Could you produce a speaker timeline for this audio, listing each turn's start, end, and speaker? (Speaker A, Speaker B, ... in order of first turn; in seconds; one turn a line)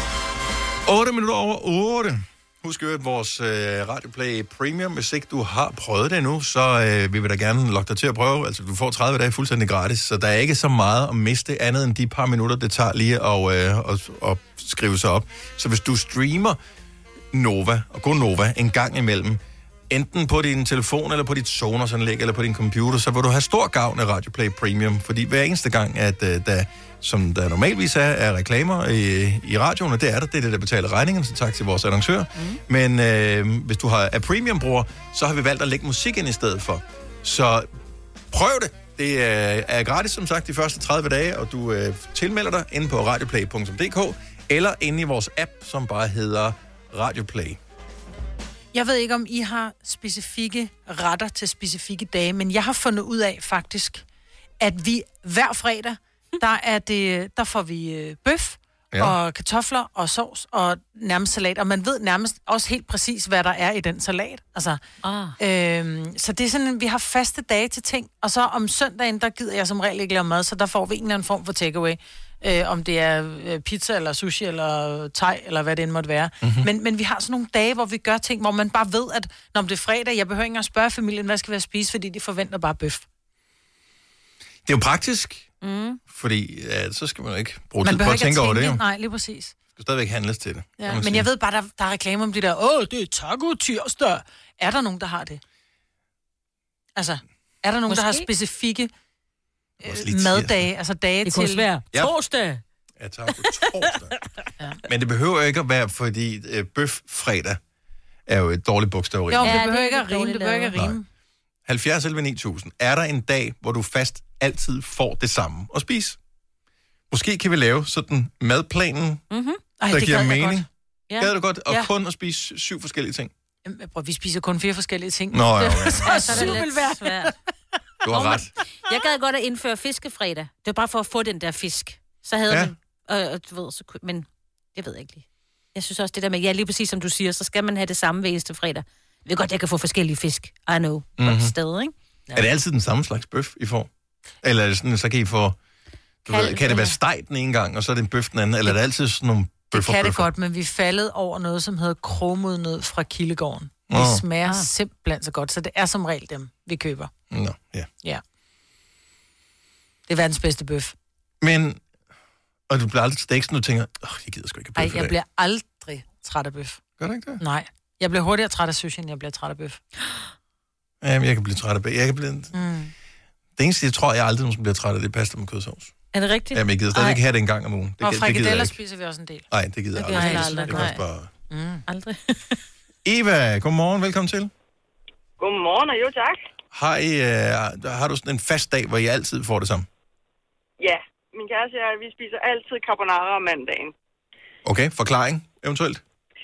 Speaker A: 0.8-16.6
Speaker A: 17.3-37.7
Speaker A: 38.3-47.6
Speaker B: 48.7-54.0
Speaker B: 54.6-64.8
Speaker A: 58.9-59.2
Speaker C: 65.0-65.3
Speaker B: 65.4-83.0
Speaker A: 76.4-76.7
Speaker A: 84.6-85.5
Speaker C: 85.6-86.0
Speaker A: 86.1-88.8
Speaker B: 87.8-89.5
Speaker A: 89.7-91.3
Speaker B: 90.8-95.4
Speaker B: 97.0-98.9
Speaker C: 97.9-98.3
Speaker A: 99.8-100.7
Speaker B: 99.8-101.7
Speaker C: 101.2-102.6
Speaker A: 103.0-104.1
Speaker A: 104.9-107.6
Speaker A: 108.3-109.5
Speaker B: 109.3-111.0
Speaker C: 109.4-110.7
Speaker A: 111.7-116.2
Speaker A: 117.1-119.2
Speaker C: 119.3-119.6
Speaker B: 119.8-120.7
Speaker A: 119.9-120.7
Speaker A: 121.2-123.3
Speaker B: 123.6-127.3
Speaker A: 125.3-126.5
Speaker C: 126.0-127.3
Speaker A: 128.0-128.5
Speaker C: 128.1-141.9
Speaker A: 132.5-132.7
Speaker A: 141.2-141.5
Speaker A: 142.3-143.9
Speaker A: 144.4-145.6
Speaker A: 146.2-150.3
Speaker C: 146.3-147.0
Speaker B: 149.7-157.1
Speaker A: 153.9-154.2
Speaker A: 157.3-157.9
Speaker B: 160.1-160.9
Speaker A: 161.4-161.8
Speaker A: 162.7-165.1
Speaker B: 164.8-166.8
Speaker A: 167.0-167.4
Speaker B: 167.4-169.8
Speaker A: 171.0-172.5
Speaker B: 172.5-172.9
Speaker A: 173.6-175.9
Speaker C: 176.1-177.2
Speaker A: 176.5-178.8
Speaker B: 178.0-179.5
Speaker A: 179.5-181.3
Speaker C: 180.0-181.0
Speaker B: 180.1-180.9
Speaker B: 181.5-181.8
Speaker C: 181.9-182.6
Speaker A: 183.0-184.5
Speaker D: 185.4-186.4
Speaker A: 186.7-189.9
Speaker D: 190.8-193.9
Speaker A: 194.6-196.0